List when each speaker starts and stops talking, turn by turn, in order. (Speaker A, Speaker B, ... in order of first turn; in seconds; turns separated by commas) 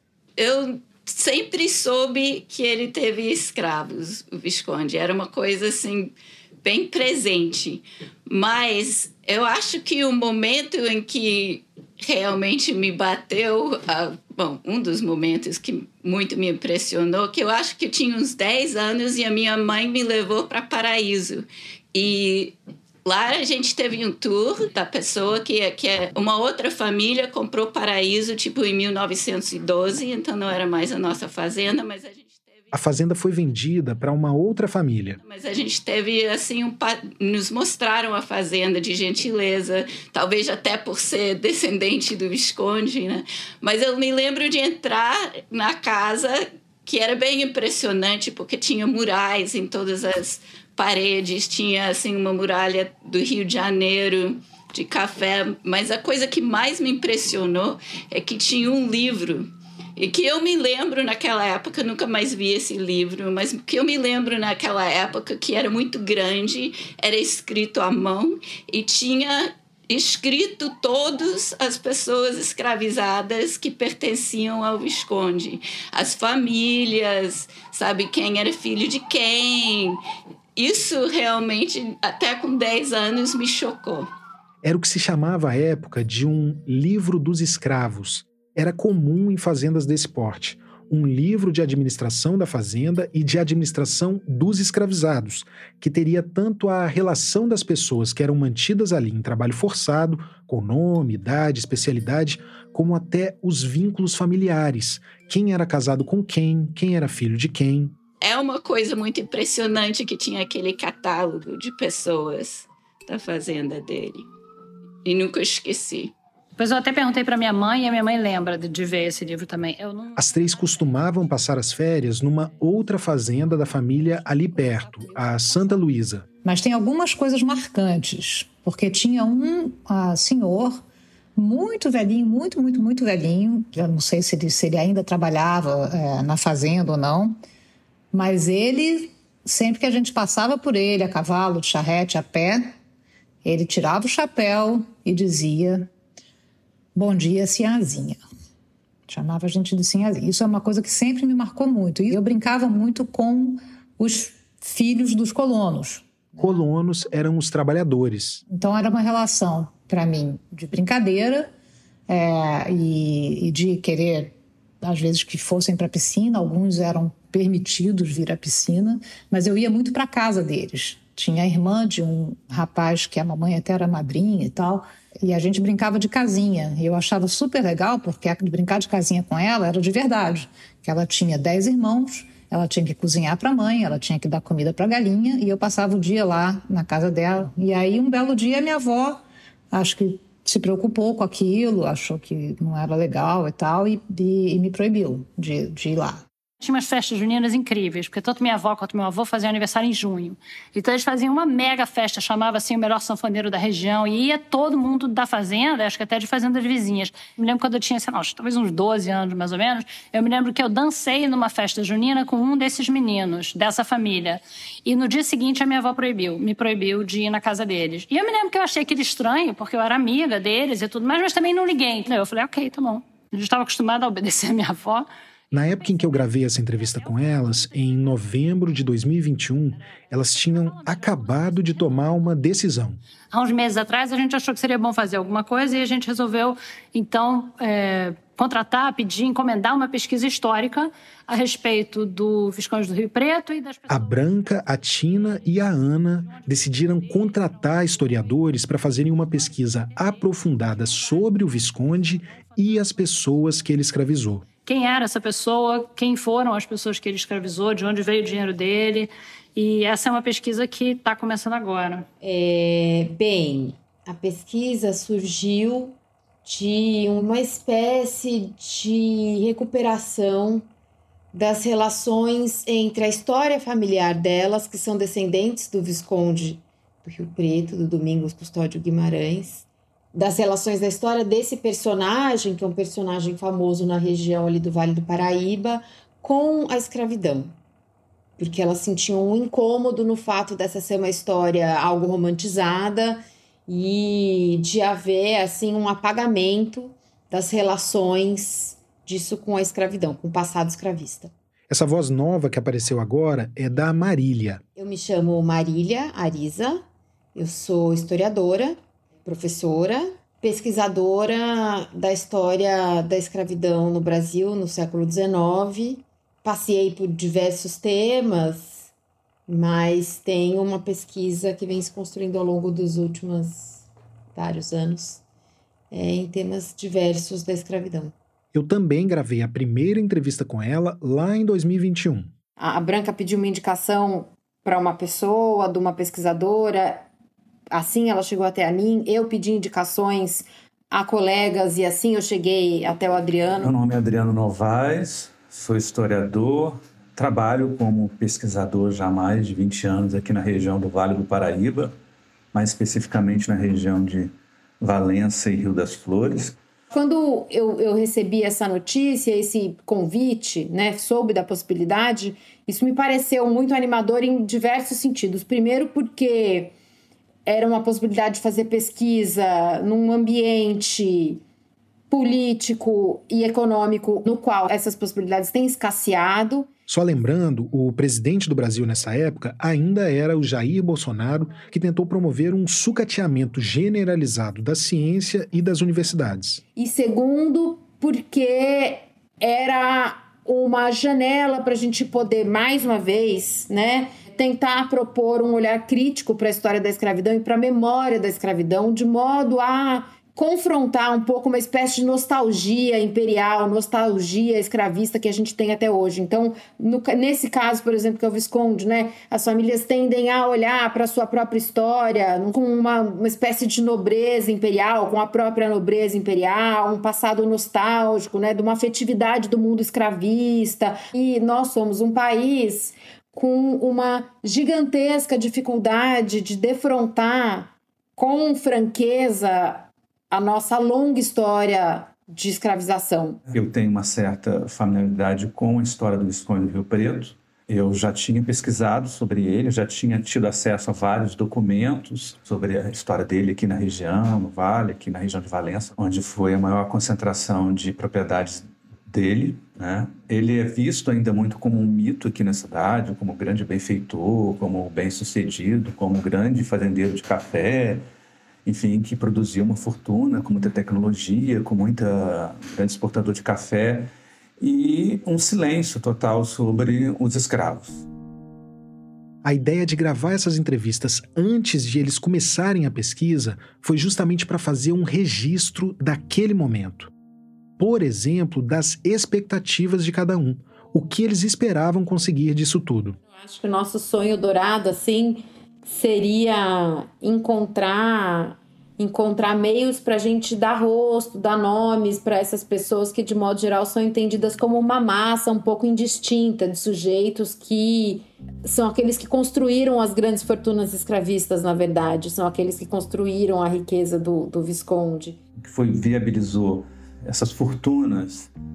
Speaker A: 0.4-32.7, Speaker B: 32.7-35.2, Speaker A: 35.2-80.0, Speaker A: 80.6-84.1, Speaker B: 84.6-108.0, Speaker A: 108.2-114.3, Speaker A: 115.0-116.1, Speaker C: 116.6-120.2, Speaker B: 120.2-126.3, Speaker D: 126.4-130.8, Speaker D: 131.4-137.4, Speaker D: 138.1-142.7, Speaker D: 143.4-145.9, Speaker D: 146.9-148.2, Speaker D: 149.1-156.6, Speaker B: 156.4-158.4, Speaker D: 158.5-161.5, Speaker D: 162.1-196.2, Speaker C: 196.6-225.1, Speaker B: 225.5-233.0, Speaker C: 233.3-243.9, Speaker B: 243.9-254.5, Speaker C: 254.7-262.1, Speaker E: 262.2-270.6, Speaker E: 271.3-287.6, Speaker E: 288.4-301.3, Speaker B: 301.7-304.6, Speaker E: 304.8-306.8, Speaker E: 307.4-318.9, Speaker E: 319.5-325.2, Speaker E: 325.9-328.1, Speaker B: 328.5-332.3, Speaker E: 332.6-337.1, Speaker E: 337.7-343.7, Speaker F: 343.6-351.9, Speaker F: 352.5-356.6, Speaker E: 356.9-366.7, Speaker E: 367.5-371.4, Speaker E: 372.1-376.7, Speaker B: 376.9-386.6, Speaker E: 386.8-433.4, Speaker F: 433.5-458.1, Speaker F: 458.7-468.1, Speaker B: 469.4-477.1, Speaker B: 477.8-483.2, Speaker E: 483.3-505.4, Speaker F: 505.6-508.5